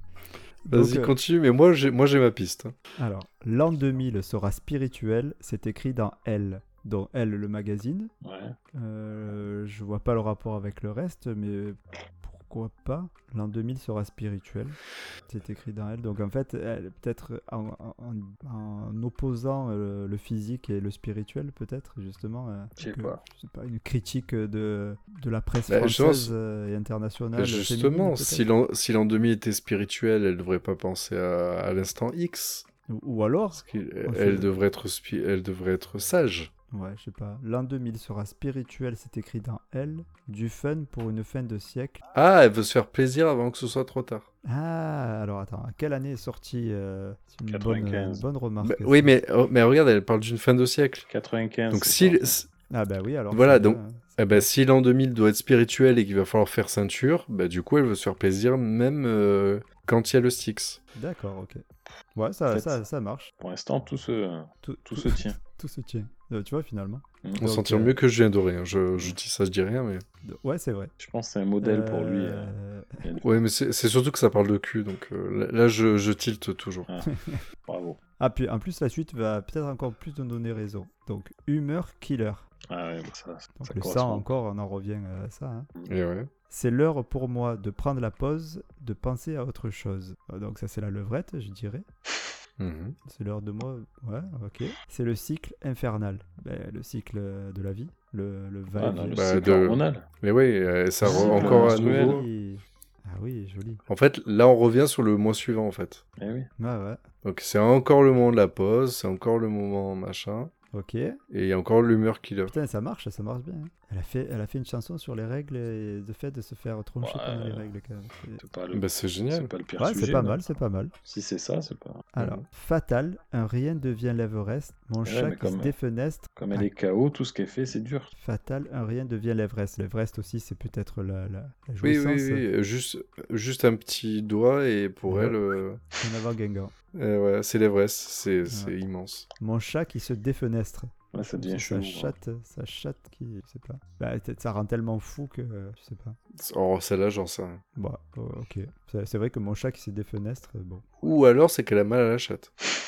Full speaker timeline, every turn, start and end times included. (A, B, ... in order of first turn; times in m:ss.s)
0:00.6-0:01.2 A
0:00.7-0:02.7 B
0:03.0-0:08.1 A
0:08.2-0:08.6 C
0:08.7-0:28.5 A
0:22.8-0:23.2 C
0:25.7-0:26.3 B
0:27.4-0:32.6 B
0:32.9-0:34.5 A
0:33.5-0:36.5 B
0:36.7-0:42.0 A
0:42.1-0:44.3 B
0:44.4-0:49.1 A
0:47.5-0:48.2 C
0:48.6-0:51.1 B
0:51.1-0:52.4 C
0:51.7-0:52.5 B
0:52.7-0:54.4 A
0:53.3-1:00.8 B
1:00.9-1:01.6 A
1:02.1-1:03.3 A
1:02.5-1:02.8 C
1:03.4-1:05.4 C
1:04.6-1:08.0 A
1:07.4-1:10.0 B
1:10.2-1:10.9 A
1:11.0-1:13.2 C
1:11.6-1:13.0 A
1:13.2-1:16.9 B
1:17.0-1:17.4 A
1:17.7-1:18.0 C
1:18.2-1:22.5 A
1:22.7-1:24.3 C
1:23.6-1:25.7 A
1:25.9-1:26.3 B
1:26.5-1:31.8 A
1:32.6-1:32.9 B
1:33.0-1:39.3 A
1:38.8-1:40.0 C
1:39.1-1:42.2 B
1:41.0-1:43.8 A
1:41.0-1:42.2 C
1:43.9-1:46.0 B
1:46.2-1:46.5 C
1:46.6-1:47.0 A
1:47.2-1:50.5 B
1:50.7-1:51.2 A
1:51.3-1:52.5 B
1:52.5-1:58.4 A
1:57.0-1:57.7 C
1:58.4-2:00.4 C
1:58.7-1:59.5 B
1:59.8-2:00.9 A
2:01.0-2:02.0 C
2:02.1-2:06.7 A
2:02.2-2:02.4 B
2:05.0-2:05.8 C
2:06.4-2:08.1 C
2:08.2-2:12.4 A
2:11.8-2:15.8 B
2:15.1-2:15.4 A
2:16.0-2:16.7 A
2:16.9-2:19.2 B
2:18.5-2:18.7 A
2:19.4-2:26.2 A
2:21.1-2:22.1 C
2:26.4-2:27.6 B
2:27.7-2:30.8 A
2:31.0-2:32.5 B